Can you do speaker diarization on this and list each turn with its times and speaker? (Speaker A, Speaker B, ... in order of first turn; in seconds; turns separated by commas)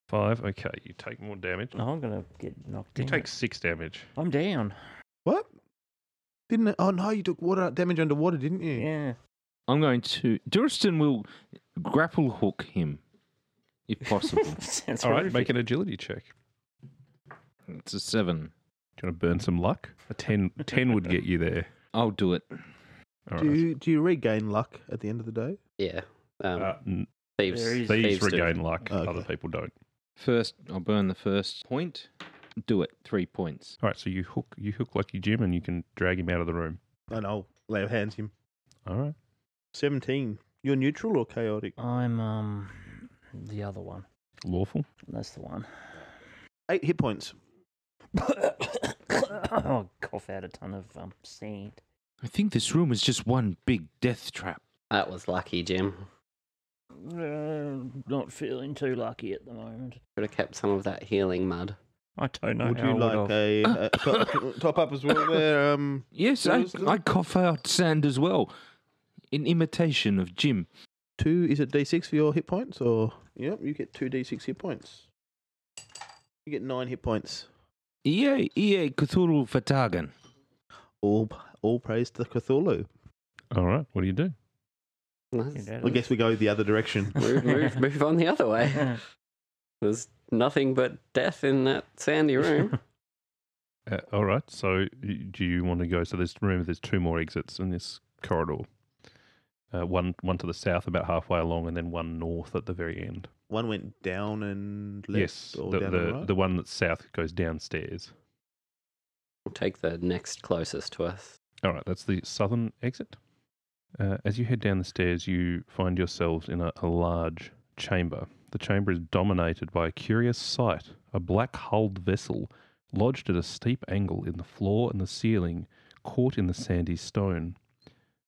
Speaker A: 0.1-1.8, Speaker B: 1.8-3.3, Speaker A: 3.0-4.1, Speaker B: 4.2-4.8, Speaker C: 6.5-8.9, Speaker B: 8.8-9.2, Speaker D: 9.7-13.0, Speaker D: 13.9-14.6, Speaker B: 14.1-15.5, Speaker A: 15.0-16.3, Speaker D: 17.7-18.5, Speaker A: 19.0-21.7, Speaker D: 21.9-22.6, Speaker A: 23.3-23.6, Speaker C: 23.4-25.6, Speaker E: 25.8-26.7, Speaker A: 26.6-27.1, Speaker E: 27.4-28.6, Speaker B: 27.5-28.3, Speaker A: 27.9-29.7, Speaker C: 28.9-29.3, Speaker D: 30.2-32.1, Speaker D: 32.6-33.8, Speaker A: 33.8-36.8, Speaker C: 37.1-38.3, Speaker A: 38.9-39.1, Speaker C: 39.7-41.8, Speaker B: 41.8-44.1, Speaker A: 44.4-44.9, Speaker B: 45.1-46.1, Speaker C: 46.7-47.4, Speaker B: 48.1-51.8, Speaker D: 52.2-54.6, Speaker E: 54.9-56.1, Speaker B: 57.0-60.0, Speaker E: 60.2-61.8, Speaker B: 62.2-63.4, Speaker C: 62.6-67.0, Speaker D: 64.1-64.3, Speaker D: 66.1-68.5, Speaker D: 69.3-70.7, Speaker C: 71.2-75.1, Speaker C: 76.5-77.5, Speaker D: 78.0-80.1, Speaker C: 81.0-82.9, Speaker A: 83.5-84.3, Speaker E: 85.3-85.7, Speaker B: 85.5-86.1, Speaker C: 85.8-87.2, Speaker E: 87.2-89.0, Speaker B: 87.3-87.8, Speaker E: 89.8-92.8, Speaker A: 93.9-98.7, Speaker A: 99.7-103.3, Speaker C: 103.5-106.3, Speaker A: 105.1-108.1, Speaker E: 109.5-111.3, Speaker A: 111.6-113.2, Speaker A: 114.0-127.6